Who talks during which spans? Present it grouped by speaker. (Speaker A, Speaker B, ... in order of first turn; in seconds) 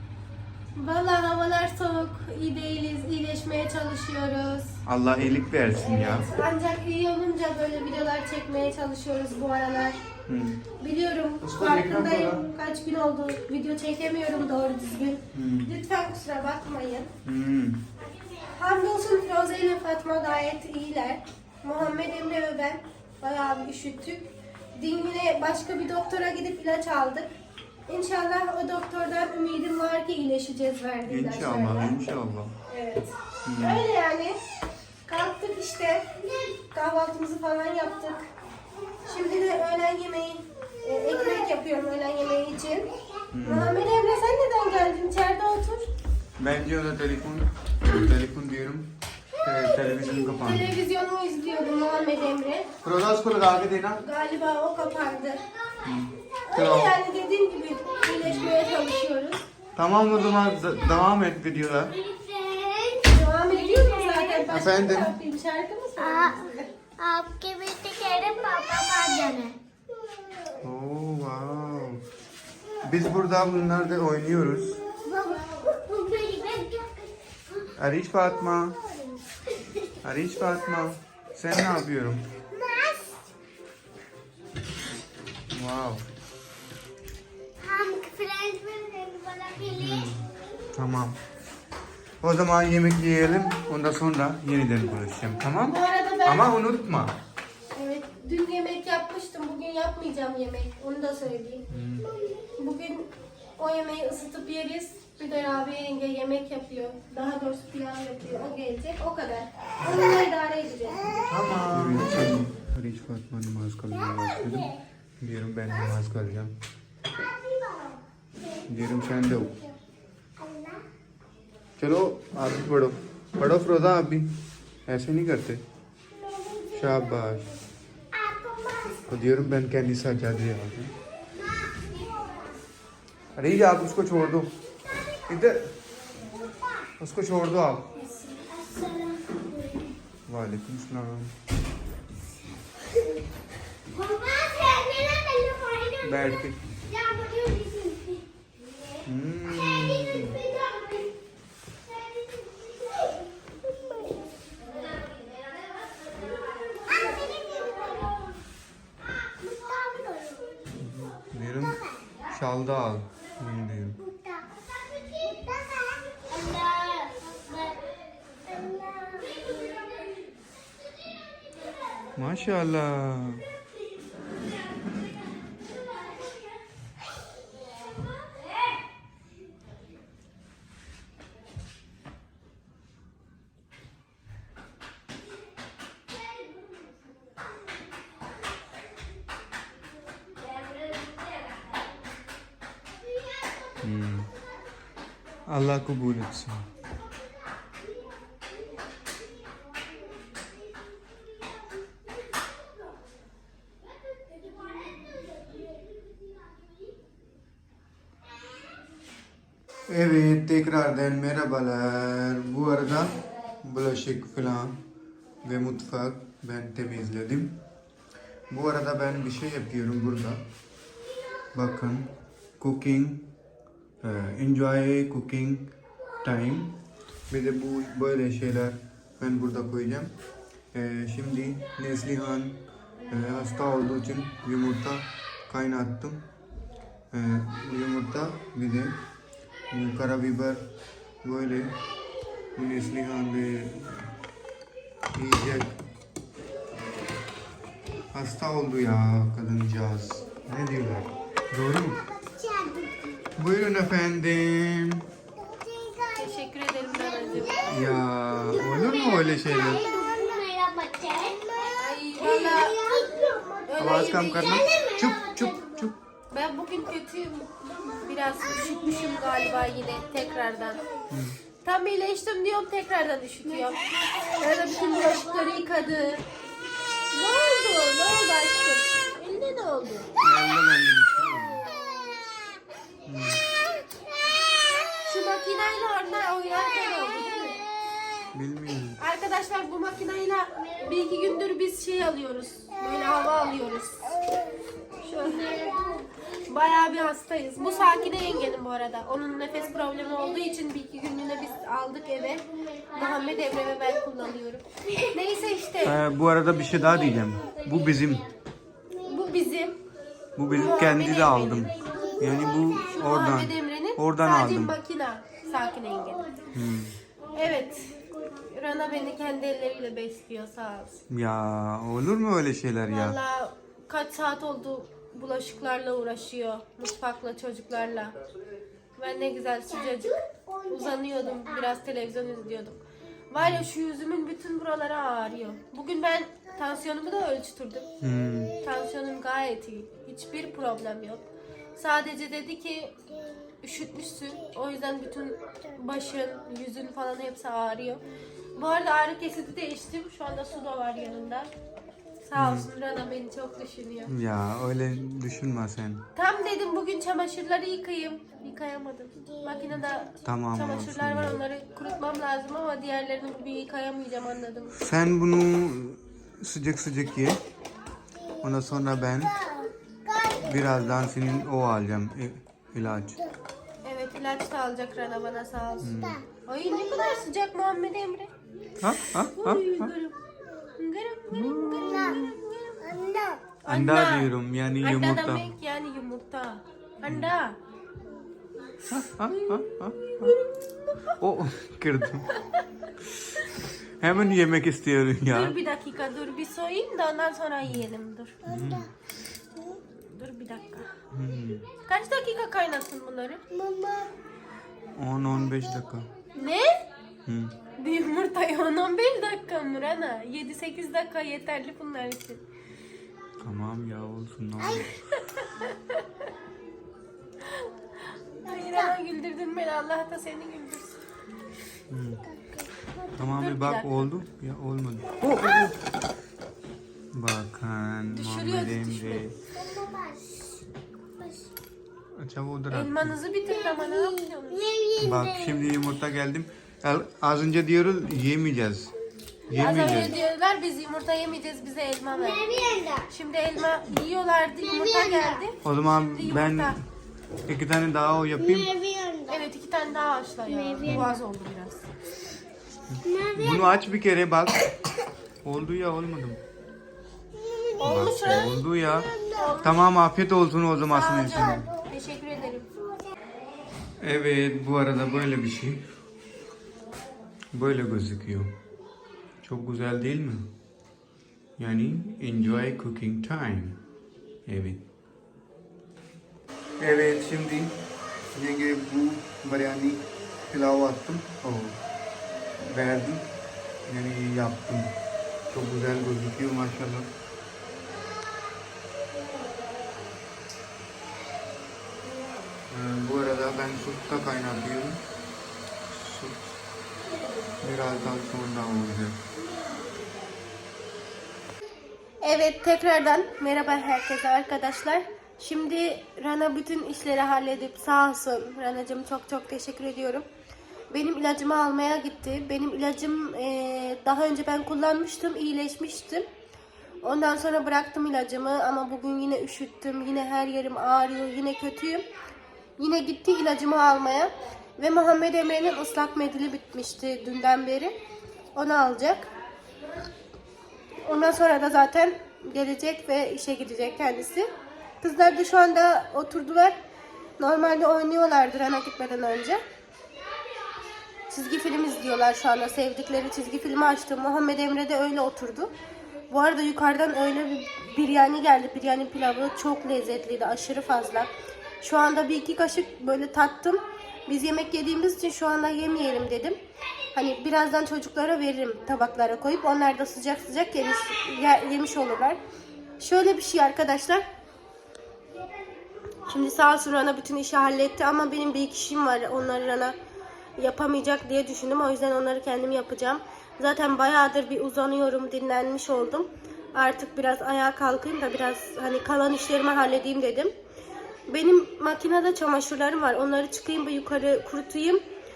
Speaker A: 0.8-4.8, 5.8-10.0, 10.8-17.1, 18.4-27.3, 27.9-31.9, 32.7-34.5, 35.0-36.1, 36.7-38.2, 39.0-42.9, 43.4-45.9, 50.4-52.7, 54.0-55.4, 56.5-59.4, 63.0-66.7, 95.7-96.5, 97.7-101.6, 102.6-103.1, 103.6-111.3, 256.1-257.8, 261.7-263.0, 263.7-264.7, 266.3-270.8, 271.6-273.8, 274.4-276.2, 277.1-280.1, 285.0-287.6, 289.0-294.2, 295.0-295.8, 296.4-306.0, 309.0-309.8, 310.5-312.2, 312.8-316.3, 317.3-321.0, 322.9-328.1, 329.0-337.9, 338.5-343.0, 343.6-348.0, 348.5-351.5, 352.2-354.1, 356.1-364.8, 373.8-378.3, 378.9-380.2, 380.8-383.0, 383.6-387.6, 388.9-391.1, 392.3-392.6, 395.3-398.4, 400.1-400.9, 401.8-403.4, 406.3-406.8, 407.7-412.4, 414.9-416.0, 418.4-421.0, 423.2-424.1, 428.1-429.3, 432.7-434.7, 439.5-442.5, 443.1-446.8, 449.3-451.9, 457.8-458.6, 459.3-459.9, 460.9-462.7, 502.2-510.2, 510.9-516.2, 517.0-522.0, 522.8-527.9, 528.5-529.3, 531.0-534.5, 535.0-536.8, 537.4-539.6, 541.3-545.7, 546.3-551.3, 551.8-556.6, 557.1-562.4, 563.0-564.2, 566.3-569.9, 570.6-580.5, 581.3-585.0
Speaker B: 4.8-6.3, 10.3-10.6, 11.4-12.4, 15.3-15.7, 17.2-17.8, 31.1-32.5, 33.4-33.8, 43.3-43.7, 46.4-50.8, 52.8-54.0, 55.8-57.0, 58.2-58.6, 59.8-61.9, 64.5-65.1, 70.6-72.0, 72.8-74.8, 77.8-78.8, 80.0-82.3, 85.5-86.1, 89.7-91.2, 92.2-97.2, 101.7-102.1, 109.8-110.1, 111.3-116.5, 118.7-119.6, 121.8-125.6, 126.7-127.5, 129.1-130.9, 133.3-134.5, 135.3-135.7, 137.0-137.9, 140.3-141.3, 146.0-146.7, 149.1-150.4, 160.7-164.0, 172.2-173.4, 193.8-194.3, 195.5-196.7, 209.9-214.8, 215.4-217.6, 218.5-220.4, 221.5-223.3, 224.0-225.7, 226.2-230.1, 230.7-236.2, 237.1-239.0, 239.7-240.6, 241.2-241.8, 242.6-244.1, 245.1-245.8, 248.1-252.0, 253.3-255.1, 257.7-259.9, 263.8-265.9, 271.1-271.4, 280.2-281.7, 283.1-283.4, 288.3-289.0, 305.8-308.2, 310.4-314.7, 316.5-317.0, 321.1-323.2, 333.4-333.6, 338.0-338.5, 352.3-352.7, 354.1-356.0, 360.2-361.4, 364.8-367.4, 368.4-369.5, 370.4-373.2, 375.8-376.2, 378.8-379.9, 381.3-382.1, 383.7-385.5, 388.9-390.3, 391.2-392.3, 394.0-395.6, 398.4-398.9, 401.1-401.6, 404.9-406.1, 407.2-407.6, 413.4-415.0, 421.9-422.2, 423.2-425.8, 427.1-429.3, 432.1-433.1, 435.0-438.9, 439.5-440.1, 445.6-446.8, 447.5-448.7, 450.8-451.1, 452.9-454.8, 455.4-456.4, 457.8-461.7, 464.0-465.8, 467.5-468.5, 469.4-470.5, 471.6-473.8, 474.5-474.8, 476.8-481.8, 482.6-483.2, 483.9-484.9, 485.5-487.1, 492.7-495.0, 495.9-496.5, 497.6-499.2
Speaker C: 61.9-64.4, 66.0-69.6, 75.0-77.6, 82.5-83.2, 87.6-90.3, 114.1-114.7, 117.3-118.0, 120.4-120.8, 126.5-126.8, 128.1-129.0, 131.6-132.4, 136.5-136.9, 138.0-139.9, 143.9-146.3, 146.9-148.2, 149.8-150.3, 156.9-158.4, 159.4-160.6, 164.1-164.4, 165.0-167.8, 168.5-170.0, 252.2-253.2, 255.5-256.2, 257.3-257.9, 258.6-265.9, 268.7-269.4, 273.7-275.5, 295.1-296.1, 311.8-313.0, 329.9-330.5, 369.4-370.6, 382.8-383.5, 398.5-398.8, 403.5-404.1, 418.6-418.9, 422.4-423.0, 429.6-430.6, 431.2-431.5, 433.7-435.6, 442.1-443.1, 444.7-445.4, 448.4-449.4, 450.5-451.1, 453.0-453.7, 457.4-458.4, 459.0-459.5